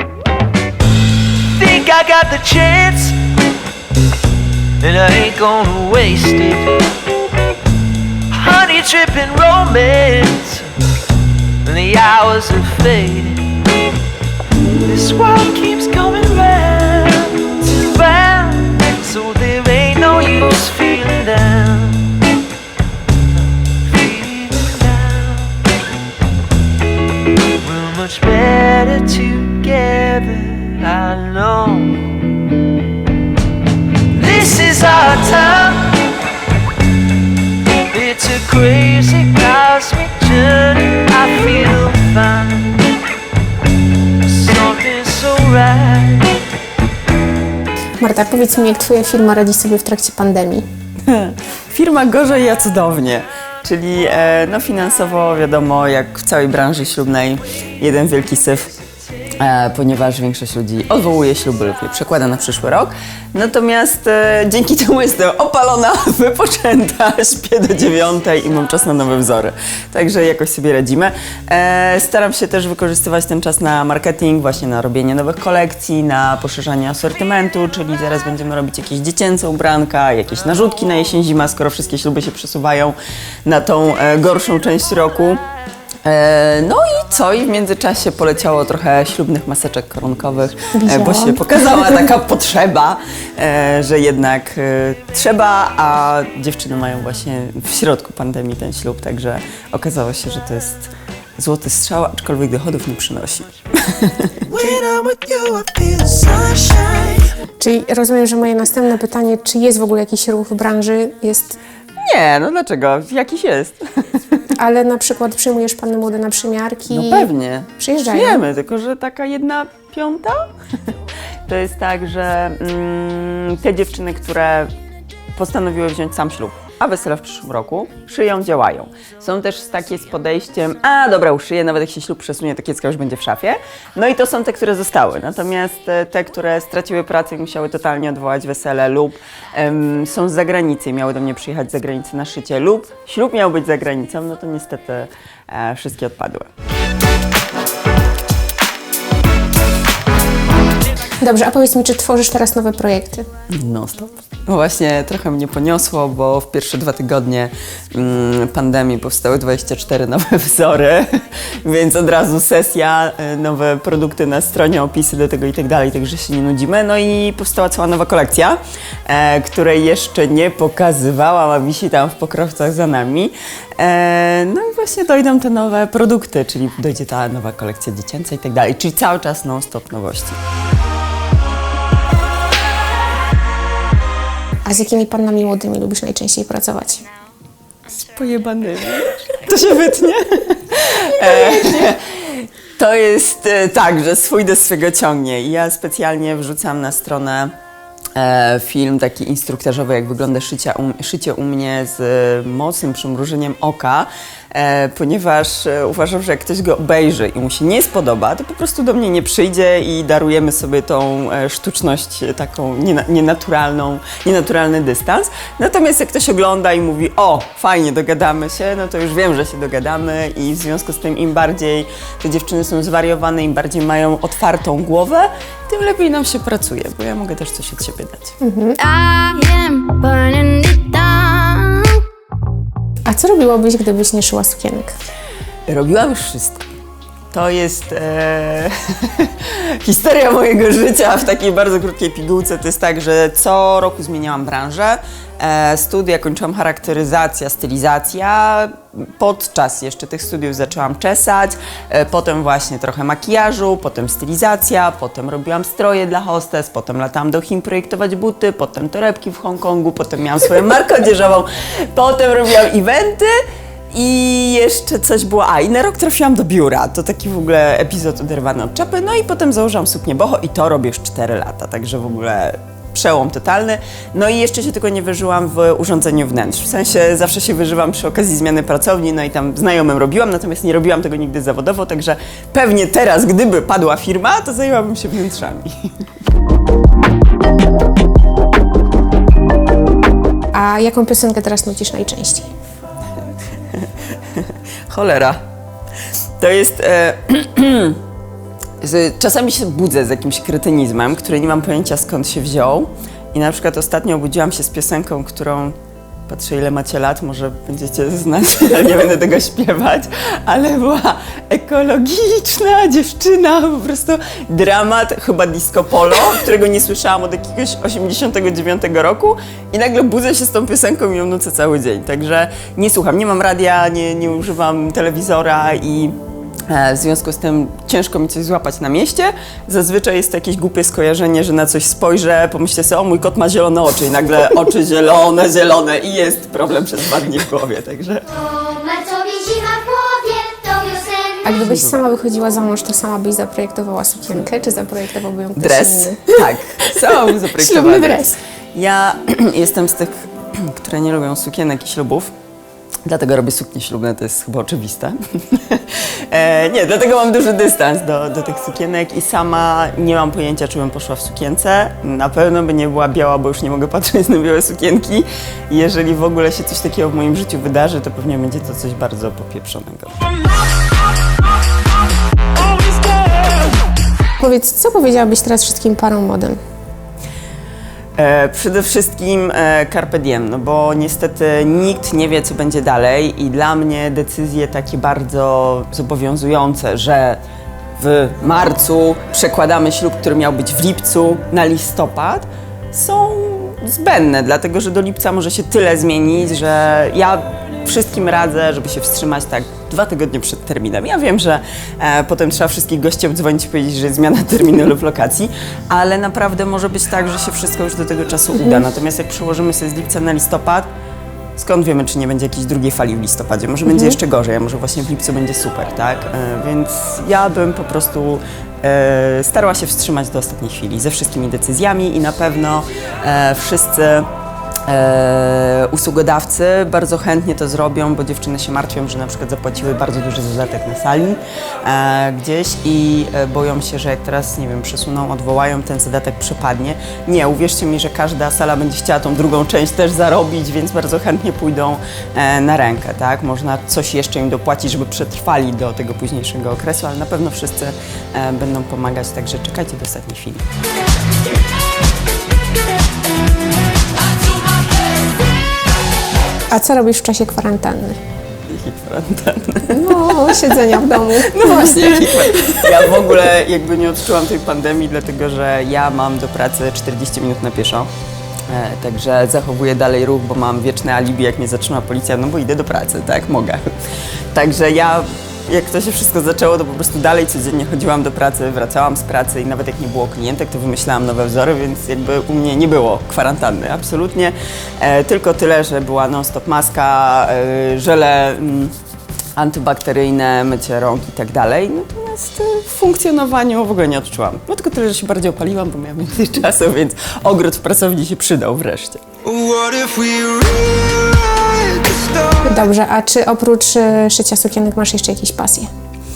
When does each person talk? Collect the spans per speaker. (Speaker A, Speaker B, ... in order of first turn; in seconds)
Speaker A: 1.6-3.2, 4.8-6.7, 8.3-10.7, 11.6-13.4, 14.6-22.1, 23.9-25.5, 27.6-32.1, 34.1-36.0, 37.9-42.8, 44.2-46.3, 106.5-106.8
Speaker B: 48.0-50.6, 90.7-92.0, 107.6-111.6, 114.5-118.4, 151.2-153.2, 184.6-187.0, 228.4-228.8, 233.1-234.9, 290.5-292.5, 341.4-346.4, 347.1-348.4, 374.4-376.6, 413.9-414.1, 456.7-458.2, 459.9-462.8, 502.6-505.9
Speaker C: 51.0-58.7, 59.4-85.4, 86.0-107.2, 112.0-114.3, 116.9-120.9, 121.5-124.7, 125.3-146.4, 153.5-180.4, 187.9-197.5, 198.2-228.3, 235.7-236.7, 237.3-263.4, 263.9-285.7, 293.7-295.4, 296.4-298.0, 298.8-305.8, 306.3-326.1, 326.7-338.2, 341.6-341.9, 345.6-352.3, 353.1-370.2, 378.2-387.4, 388.0-410.9, 411.6-424.3, 424.9-450.6, 458.7-468.1, 468.7-473.9, 474.5-488.9, 489.6-501.7
Speaker D: 228.8-232.0, 338.4-341.4